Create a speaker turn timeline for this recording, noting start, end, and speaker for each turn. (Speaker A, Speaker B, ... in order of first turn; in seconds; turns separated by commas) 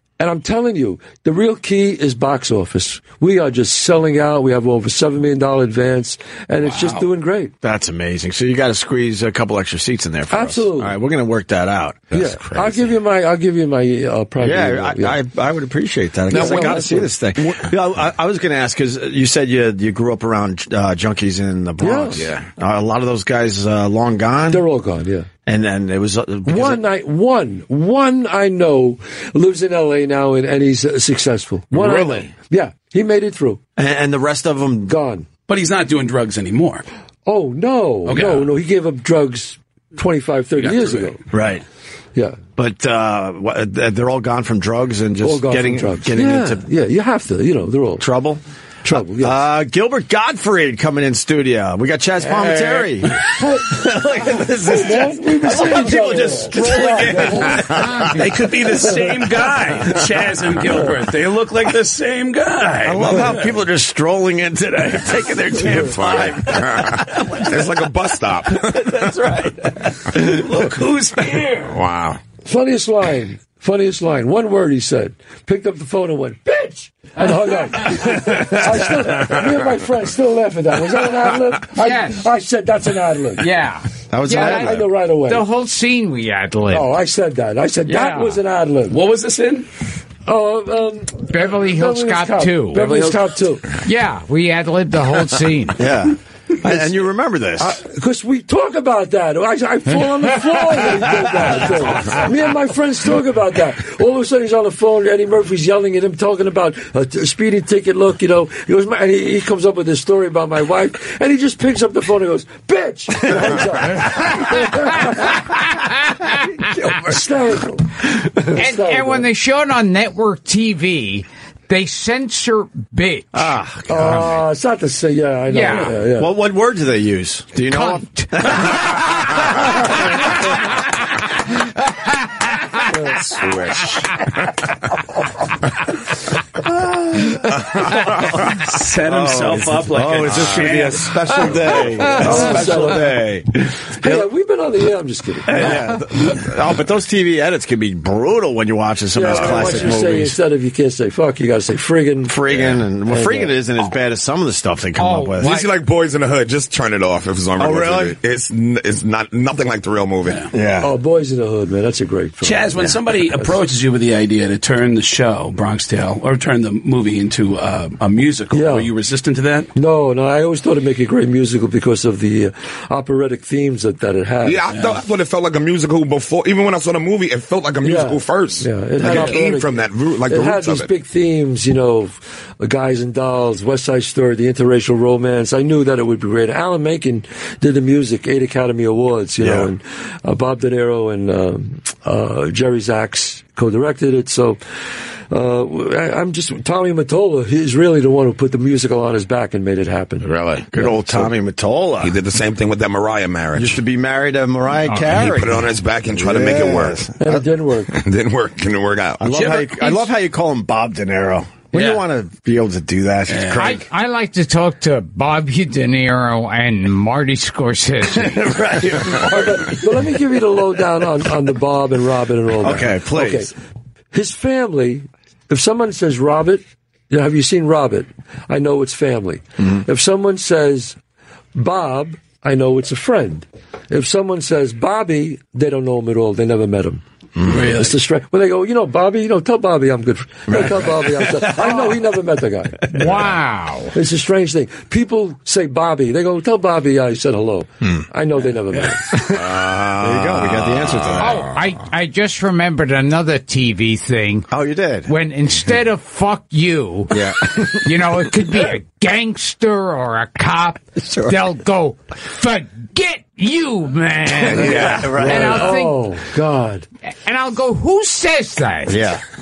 Speaker A: 0.2-7.5, Speaker B: 7.6-12.1, Speaker A: 10.3-10.9, Speaker C: 12.1-12.9, Speaker A: 12.1-15.2, Speaker B: 14.4-24.6, Speaker A: 16.3-17.5, Speaker A: 21.8-22.2, Speaker C: 22.1-22.5, Speaker A: 24.5-25.3, Speaker B: 25.5-26.8, Speaker A: 26.4-33.6, Speaker C: 31.7-32.3, Speaker B: 33.8-35.0, Speaker A: 34.9-35.3, Speaker D: 35.5-36.9, Speaker A: 37.3-41.2, Speaker D: 38.1-38.5, Speaker C: 40.6-41.1, Speaker B: 41.3-41.6, Speaker A: 42.1-42.4, Speaker B: 42.6-46.7, Speaker A: 45.2-48.0, Speaker B: 48.0-48.4, Speaker A: 48.8-49.5, Speaker B: 49.2-58.1, Speaker A: 53.4-53.7, Speaker A: 54.6-57.8, Speaker C: 57.5-57.9, Speaker E: 57.8-58.2, Speaker D: 58.1-63.5, Speaker B: 62.8-67.3, Speaker C: 65.6-69.1, Speaker D: 66.0-66.3, Speaker D: 67.0-67.5, Speaker B: 68.5-70.2, Speaker D: 70.0-71.8, Speaker C: 71.7-72.2, Speaker A: 72.5-83.5, Speaker C: 77.9-78.6, Speaker E: 81.8-82.3, Speaker E: 83.4-86.9, Speaker B: 84.1-84.9, Speaker A: 84.3-85.4, Speaker A: 86.7-89.0, Speaker E: 87.9-88.4, Speaker D: 88.9-89.7, Speaker A: 90.3-93.7, Speaker E: 91.3-93.1, Speaker D: 92.8-93.1, Speaker E: 93.8-95.9, Speaker B: 95.8-97.8, Speaker A: 97.6-115.4, Speaker E: 115.1-116.5, Speaker B: 116.7-117.1, Speaker A: 116.9-119.3, Speaker E: 118.5-123.5, Speaker B: 123.3-124.3, Speaker A: 123.9-126.3, Speaker E: 125.5-126.0, Speaker B: 126.0-129.7, Speaker E: 127.7-130.6, Speaker E: 132.6-132.9, Speaker A: 132.9-133.2, Speaker C: 133.2-134.0, Speaker B: 137.0-137.4, Speaker C: 137.6-138.1, Speaker D: 138.0-141.9, Speaker B: 139.0-144.3, Speaker C: 140.1-140.9, Speaker A: 142.2-143.3, Speaker A: 144.0-145.8, Speaker B: 145.5-150.4, Speaker D: 145.5-145.9, Speaker A: 149.1-152.4, Speaker C: 149.2-149.9, Speaker B: 152.2-155.6, Speaker C: 152.5-152.8, Speaker A: 153.0-153.6, Speaker E: 155.0-155.7, Speaker C: 155.4-160.5, Speaker B: 157.6-158.2, Speaker D: 160.2-160.5, Speaker B: 160.5-160.9, Speaker A: 160.8-163.6, Speaker D: 162.4-169.7, Speaker A: 168.5-168.9, Speaker A: 169.7-174.6, Speaker C: 174.4-180.9, Speaker D: 174.7-175.0, Speaker A: 177.8-179.7, Speaker A: 180.3-194.6, Speaker B: 189.4-189.7, Speaker A: 195.3-201.3, Speaker C: 200.2-200.7, Speaker B: 200.7-202.2, Speaker C: 202.0-203.8, Speaker B: 203.5-207.4, Speaker C: 205.1-207.2, Speaker A: 207.2-207.9, Speaker C: 207.9-209.8, Speaker B: 209.2-213.9, Speaker D: 211.7-212.0, Speaker D: 213.3-213.6, Speaker E: 213.5-218.5, Speaker B: 218.2-219.5, Speaker A: 219.1-223.5, Speaker B: 222.6-223.5, Speaker A: 224.1-231.0, Speaker A: 231.6-243.0, Speaker B: 237.4-237.8, Speaker D: 237.5-237.9, Speaker B: 240.5-242.0, Speaker E: 242.9-243.9, Speaker B: 242.9-243.3, Speaker A: 243.9-249.4, Speaker C: 249.1-251.6, Speaker B: 249.2-251.5, Speaker E: 251.2-254.5, Speaker B: 254.5-255.1, Speaker E: 255.1-266.1, Speaker B: 257.1-257.9, Speaker B: 261.0-261.4, Speaker B: 264.4-265.7, Speaker A: 264.5-266.9, Speaker C: 264.6-265.1, Speaker E: 267.2-269.0, Speaker B: 268.9-269.2